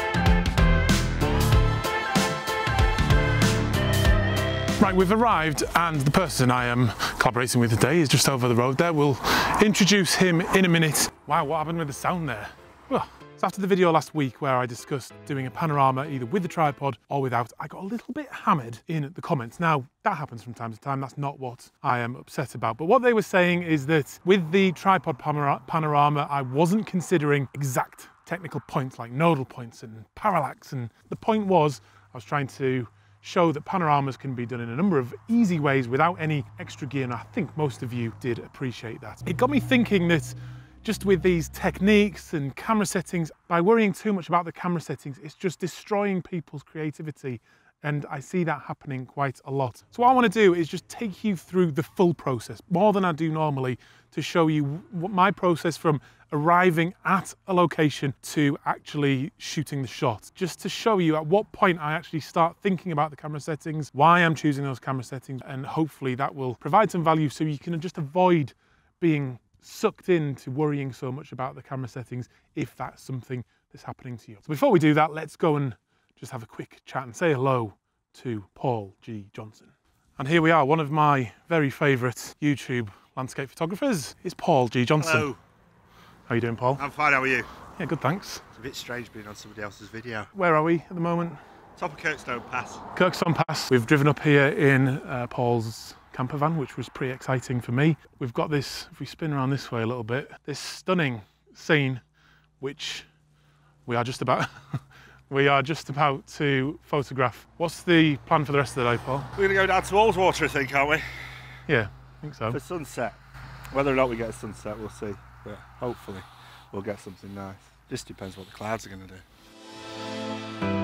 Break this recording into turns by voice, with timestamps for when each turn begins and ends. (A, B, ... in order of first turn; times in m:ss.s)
0:04.8-1:25.3 A
1:25.0-1:25.4 B
1:26.3-1:26.8 A
1:26.8-1:27.5 B
1:27.8-1:28.5 A
1:28.6-1:30.3 B
1:30.3-1:31.4 A
1:31.8-1:32.8 B
1:32.9-1:42.0 A
1:42.6-1:43.1 A
1:43.9-1:49.3 A
1:49.4-1:51.3 B
1:51.7-1:52.6 A
1:52.5-1:53.2 B
1:53.7-1:59.2 B